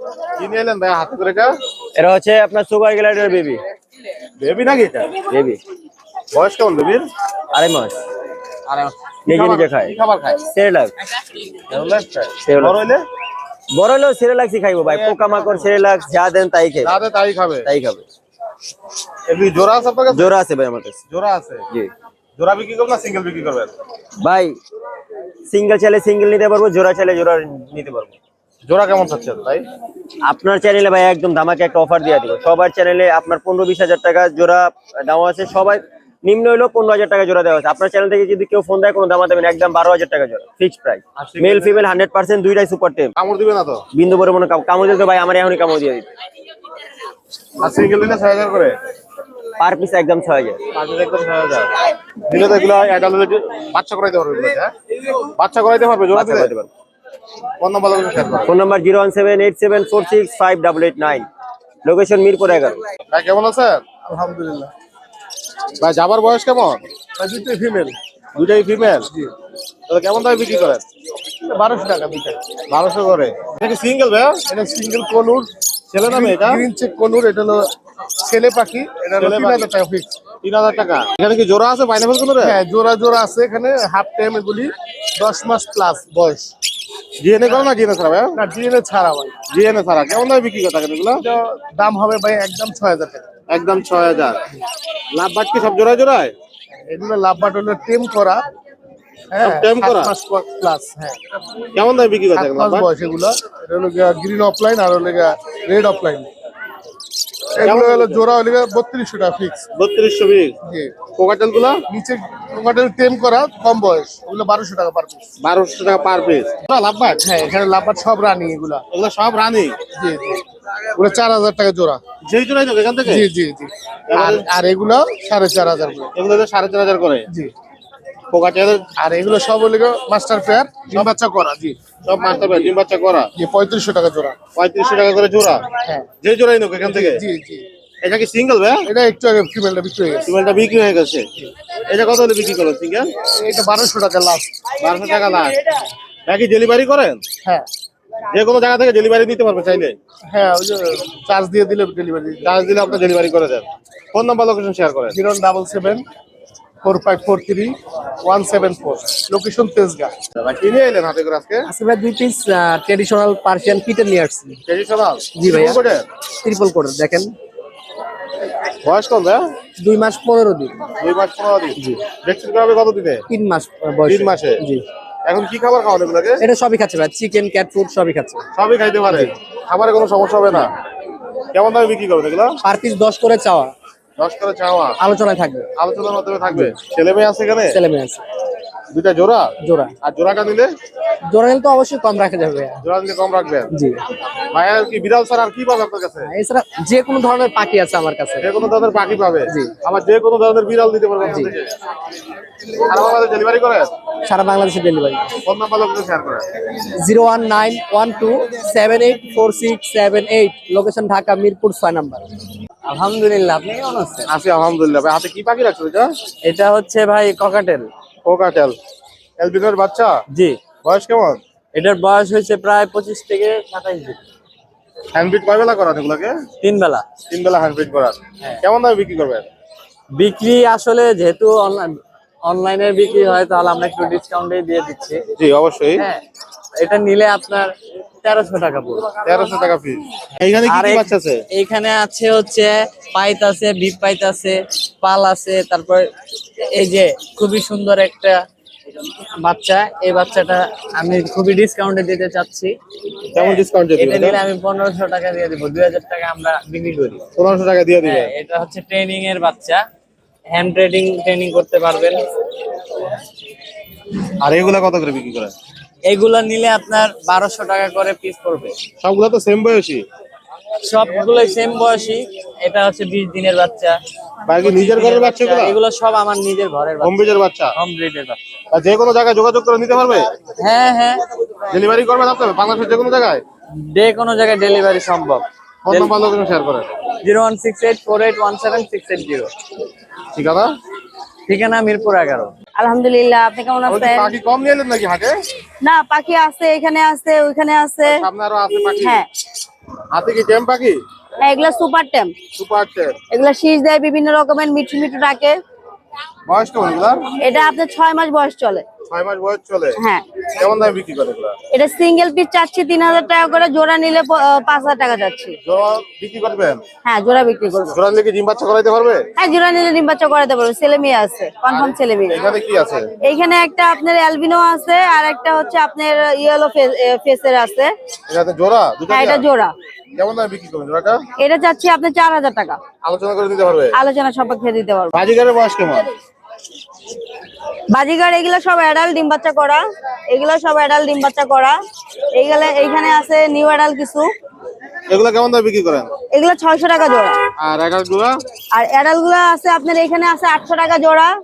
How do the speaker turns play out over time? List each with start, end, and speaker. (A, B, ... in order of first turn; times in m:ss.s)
0:00.4-0:01.5 A
0:02.0-0:03.6 B
0:04.4-0:05.1 A
0:05.3-0:05.6 B
0:06.3-0:07.0 A
0:07.5-0:08.0 B
0:08.7-0:10.4 A
0:09.3-0:09.9 B
0:10.5-0:10.9 B
0:11.7-0:13.0 A
0:12.4-0:12.8 B
0:13.7-0:17.0 B
0:14.8-0:15.7 A
0:16.8-0:17.7 A
0:17.6-0:18.0 B
0:19.3-0:20.4 A
0:20.1-0:21.0 B
0:21.1-0:21.6 A
0:22.4-0:23.7 A
0:24.2-0:24.6 B
0:25.5-0:28.1 B
0:28.7-0:29.6 A
0:30.2-0:43.1 B
0:41.2-0:41.8 A
0:43.2-0:43.8 A
0:43.9-0:46.1 B
0:47.6-0:48.8 A
0:49.6-0:50.6 B
0:50.7-0:51.7 A
0:52.3-0:54.7 A
0:55.4-0:56.6 A
0:56.1-0:56.7 B
0:57.6-0:58.5 A
0:58.4-1:01.2 B
1:01.8-1:02.8 B
1:03.1-1:03.8 A
1:04.1-1:04.7 C
1:05.8-1:06.8 A
1:07.2-1:07.9 C
1:08.4-1:09.0 A
1:09.9-1:10.8 A
1:11.5-1:12.4 C
1:12.7-1:14.4 A
1:14.5-1:15.5 C
1:15.9-1:16.6 A
1:16.1-1:17.6 C
1:18.3-1:20.1 C
1:19.0-1:19.7 A
1:20.4-1:22.6 A
1:22.4-1:26.5 C
1:27.2-1:28.4 A
1:28.4-1:29.3 C
1:29.5-1:31.2 A
1:31.2-1:33.3 C
1:33.5-1:34.4 A
1:35.1-1:36.3 A
1:36.9-1:38.4 C
1:39.3-1:40.1 A
1:39.4-1:41.1 C
1:41.8-1:42.9 A
1:42.3-1:46.3 C
1:47.6-1:49.6 C
1:47.6-1:48.2 A
1:49.7-1:50.6 A
1:50.6-1:50.9 C
1:51.1-1:51.8 A
1:51.9-1:55.2 C
1:55.4-1:57.2 A
1:57.2-1:58.8 C
1:58.9-1:59.8 A
2:00.0-2:00.4 C
2:01.0-2:02.0 C
2:02.2-2:03.2 A
2:03.0-2:06.1 C
2:04.1-2:04.5 A
2:06.1-2:07.2 A
2:08.3-2:08.9 A
2:09.0-2:11.7 C
2:12.0-2:13.3 A
2:13.4-2:14.4 C
2:14.5-2:15.6 A
2:16.2-2:17.2 A
2:16.9-2:17.6 C
2:18.0-2:18.8 A
2:18.8-2:20.3 C
2:20.2-2:21.3 A
2:21.9-2:23.1 A
2:23.4-2:24.5 C
2:24.8-2:25.5 A
2:26.3-2:27.2 A
2:28.3-2:30.0 A
2:30.3-2:32.4 C
2:32.4-2:35.2 A
2:35.2-2:36.0 C
2:36.8-2:37.7 C
2:38.2-2:39.1 A
2:39.1-2:40.1 C
2:40.4-2:41.7 A
2:41.7-2:44.6 D
2:44.7-2:46.0 A
2:45.3-2:45.8 D
2:46.4-2:47.3 D
2:48.8-2:49.5 A
2:49.8-2:50.7 D
2:51.0-2:53.2 A
2:51.8-2:52.0 D
2:53.3-2:54.8 D
2:54.0-2:54.6 A
2:55.2-2:56.4 A
2:56.4-2:58.4 D
2:58.5-3:00.7 A
3:01.5-3:02.6 A
3:02.6-3:03.7 D
3:04.2-3:05.0 A
3:05.0-3:05.7 D
3:05.8-3:07.8 A
3:06.5-3:06.8 D
3:07.7-3:08.2 D
3:08.9-3:10.7 A
3:09.6-3:09.9 D
3:11.3-3:12.8 D
3:12.8-3:13.7 A
3:13.7-3:14.0 D
3:14.5-3:16.3 A
3:16.3-3:18.4 D
3:18.4-3:21.7 A
3:21.2-3:21.5 D
3:22.9-3:23.9 A
3:24.2-3:25.2 D
3:25.4-3:26.4 A
3:27.0-3:32.2 D
3:32.9-3:34.3 D
3:34.3-3:36.1 A
3:36.4-3:37.9 D
3:38.2-3:38.8 A
3:39.4-3:40.2 A
3:40.3-3:40.6 D
3:40.8-3:41.4 A
3:41.7-3:44.2 D
3:45.1-3:46.4 A
3:46.6-3:47.0 D
3:47.3-3:49.5 A
3:50.1-3:55.2 D
3:55.4-3:56.0 A
3:56.8-3:59.1 D
3:59.2-4:01.4 A
4:00.6-4:06.1 D
4:06.7-4:08.4 D
4:09.4-4:12.8 D
4:13.3-4:14.4 A
4:13.4-4:17.2 D
4:17.4-4:18.3 A
4:18.0-4:19.8 D
4:20.5-4:22.2 D
4:24.4-4:25.5 A
4:26.0-4:28.8 D
4:29.0-4:30.0 A
4:30.8-4:34.0 D
4:34.5-4:35.8 A
4:34.6-4:37.2 D
4:37.0-4:37.7 A
4:37.7-4:38.4 D
4:38.7-4:40.3 A
4:40.6-4:41.2 D
4:41.7-4:43.4 A
4:43.8-4:46.1 D
4:45.8-4:46.9 A
4:47.2-4:49.5 D
4:50.3-4:50.7 A
4:51.5-4:52.5 D
4:52.8-4:54.4 E
4:53.9-4:55.4 A
4:55.8-4:58.2 E
4:58.0-4:59.2 A
4:59.0-4:59.3 E
5:00.1-5:01.0 A
5:01.4-5:02.4 E
5:02.5-5:03.2 A
5:03.3-5:05.6 E
5:06.5-5:07.2 A
5:07.4-5:08.8 E
5:09.1-5:10.0 A
5:10.0-5:10.2 E
5:10.6-5:11.6 A
5:11.7-5:15.6 E
5:15.6-5:16.8 A
5:17.0-5:18.0 E
5:17.9-5:19.3 A
5:19.4-5:22.4 E
5:21.7-5:23.1 A
5:23.2-5:27.9 E
5:28.3-5:29.4 A
5:29.1-5:29.7 E
5:30.2-5:31.2 A
5:31.4-5:32.8 E
5:33.0-5:33.9 A
5:33.9-5:35.1 E
5:35.1-5:36.1 A
5:37.9-5:41.8 E
5:42.4-5:44.2 E
5:45.1-5:46.1 A
5:46.3-5:47.4 E
5:47.6-5:48.4 A
5:48.7-5:51.3 E